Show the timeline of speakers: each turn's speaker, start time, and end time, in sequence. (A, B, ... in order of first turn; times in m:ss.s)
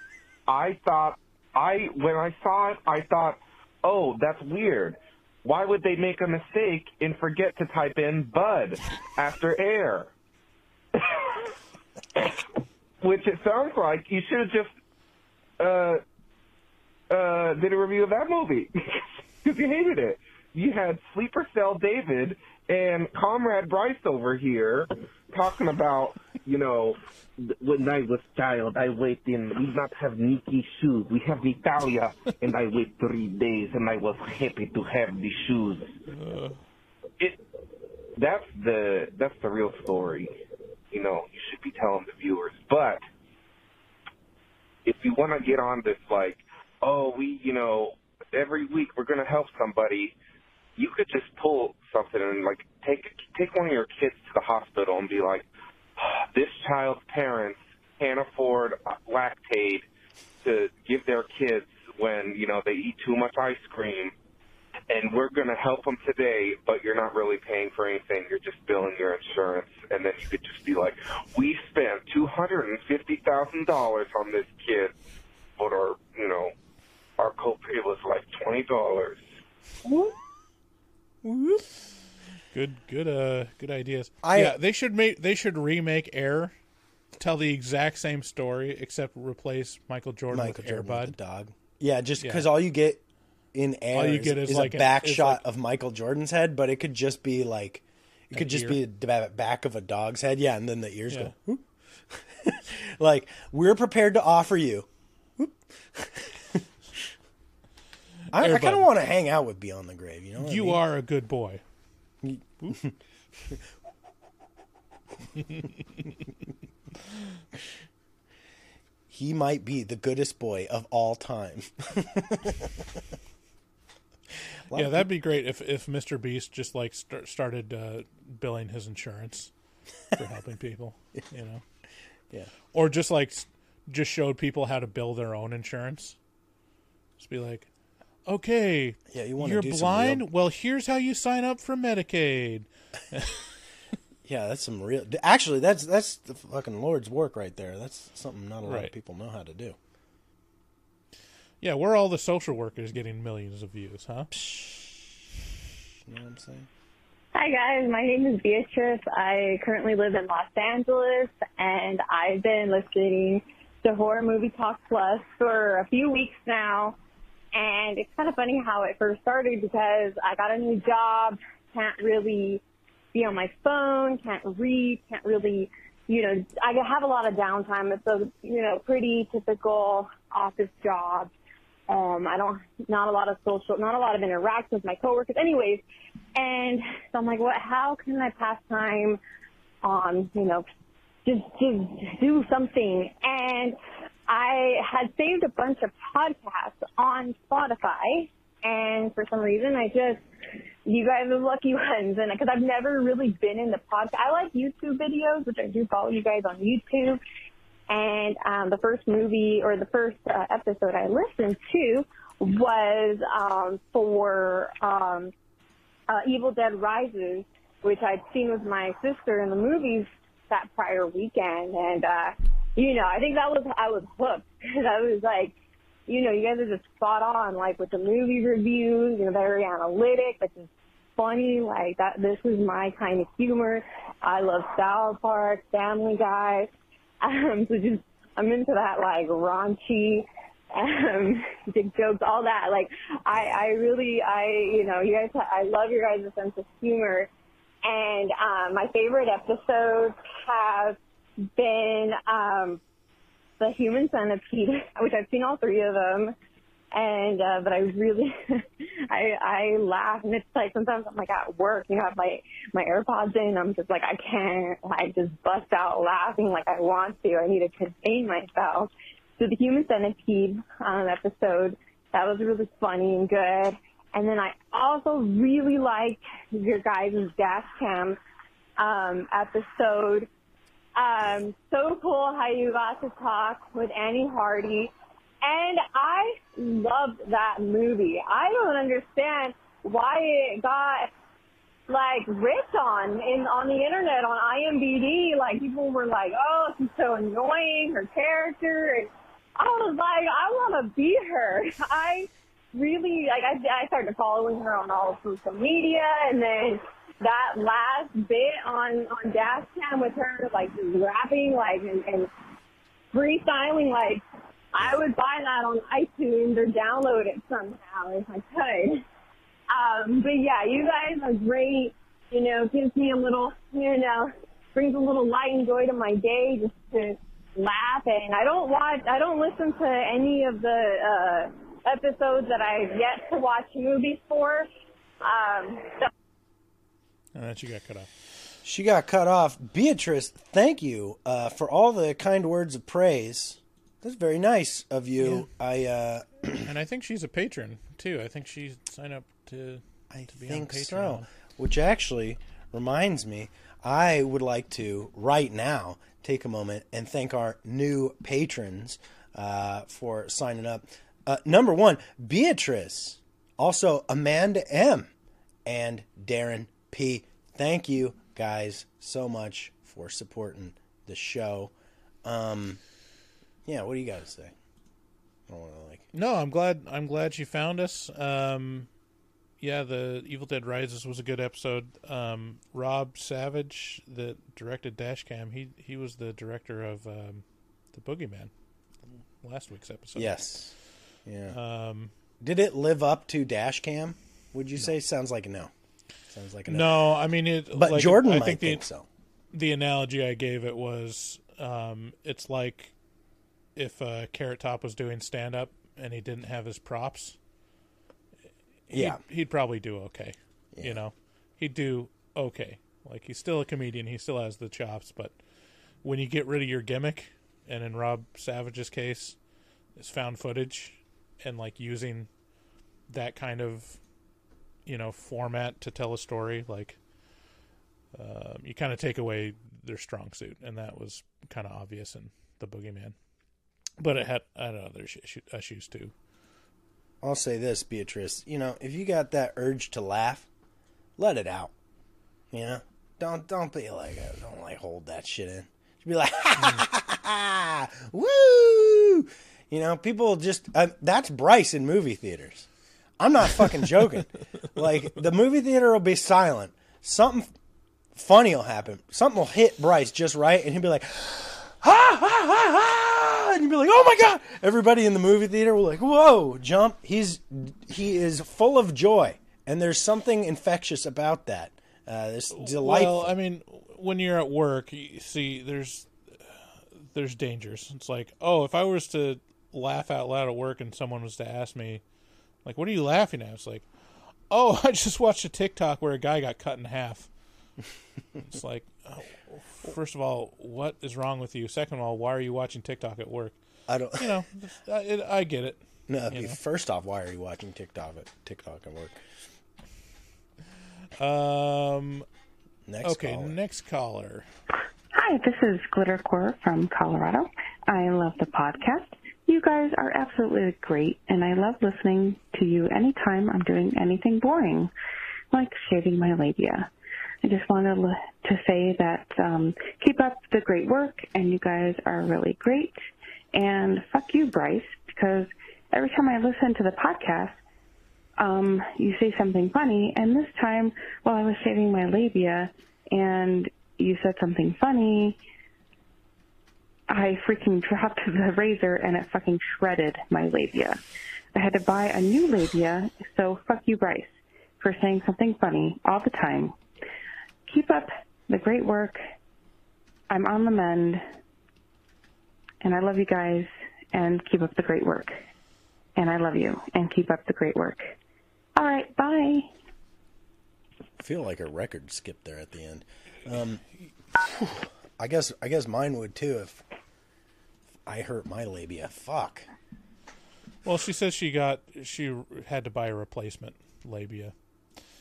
0:00.5-0:10.1 A
0:11.0-0:11.5 A
0:13.0-0:14.7 A
0:15.6-0:16.0 A
0:17.1-0:35.9 A
0:36.1-0:36.6 B
0:38.2-0:40.3 A
0:40.9-0:43.0 A
0:44.8-0:50.1 A
0:50.8-0:59.9 A
1:00.4-1:04.1 A
1:04.9-1:14.9 A
1:15.6-1:16.5 A
1:17.2-1:19.3 A
1:21.2-1:21.6 C
1:22.5-1:26.5 B
1:24.2-1:24.6 C
1:27.2-1:31.2 B
1:30.3-1:33.0 C
1:32.2-1:32.5 B
1:33.5-1:46.6 C
1:33.9-1:35.4 B
1:38.3-1:38.8 B
1:48.3-1:48.9 B
1:48.3-1:50.8 C
1:50.4-1:51.6 B
1:52.2-1:52.9 C
1:59.1-2:02.7 C
2:04.7-2:05.1 C
2:04.7-2:09.5 B
2:10.1-2:11.6 B
2:12.7-2:16.2 B
2:17.2-2:17.7 B
2:18.2-2:23.4 B
2:19.1-2:20.2 C
2:24.2-2:29.8 C
2:28.6-2:28.9 B
2:31.6-2:34.3 B
2:34.3-2:35.0 C
2:36.1-2:36.7 C
2:37.3-2:47.0 D
2:47.5-2:52.6 D
2:53.1-3:01.3 D
3:01.9-3:05.8 D
3:06.3-3:09.2 D
3:09.8-3:10.6 D
3:11.2-3:20.2 D
3:20.8-3:27.2 D
3:27.9-3:35.3 D
3:36.1-3:45.5 D
3:46.1-3:56.7 D
3:57.2-4:07.3 D
4:07.8-4:11.0 D
4:11.6-4:12.8 D
4:13.6-4:16.4 D
4:16.9-4:38.2 D
4:38.8-4:40.3 D
4:41.0-4:44.9 D
4:45.4-4:51.1 D
4:51.9-5:12.3 D
5:13.1-5:19.0 D
5:19.7-5:34.7 D
5:35.2-5:36.1 D
5:37.3-5:38.1 B
5:38.6-5:46.7 C
5:45.2-5:45.5 B
5:46.6-5:51.3 B
5:50.1-6:05.1 C
6:05.6-6:11.7 C
6:12.2-6:12.8 C
6:13.6-6:14.5 C
6:15.5-6:16.1 C
6:16.1-6:18.9 B
6:19.6-6:28.5 B
6:29.4-6:30.4 B
6:30.1-6:30.7 C
6:31.2-6:31.6 C
6:31.5-6:32.1 B
6:32.4-6:35.7 C
6:36.3-6:37.0 C
6:36.7-6:38.8 B
6:37.7-6:39.1 C
6:39.5-6:42.9 B
6:43.8-6:47.4 B
6:48.9-6:55.4 B
6:48.9-6:49.2 C
6:50.7-6:51.0 C
6:56.0-6:59.4 B
7:00.0-7:02.3 B
7:03.1-7:04.0 B
7:04.8-7:07.0 B
7:08.1-7:13.1 B
7:14.0-7:16.1 B
7:17.2-7:20.5 C
7:21.2-7:21.7 C
7:22.5-7:32.7 C
7:26.6-7:26.8 B
7:33.2-7:37.5 C
7:38.1-7:53.3 C
7:52.5-8:02.0 B
8:02.6-8:03.9 B
8:04.5-8:07.3 B
8:08.5-8:13.6 B
8:13.9-8:14.3 C
8:14.1-8:16.6 B
8:16.1-8:19.2 C
8:21.2-8:22.3 B
8:22.9-8:23.6 C
8:23.0-8:24.5 B
8:25.1-8:34.9 E
8:35.5-8:36.9 E
8:37.4-8:43.0 E
8:43.5-8:47.6 E
8:48.4-8:55.4 E
8:57.1-9:01.0 E
9:01.5-9:06.7 E
9:07.7-9:09.2 E
9:10.3-9:11.2 E
9:12.8-9:15.4 E
9:16.2-9:18.1 E
9:18.8-9:19.7 E
9:21.2-9:23.8 C
9:24.6-9:26.8 C
9:28.1-9:29.6 C
9:30.8-9:34.5 B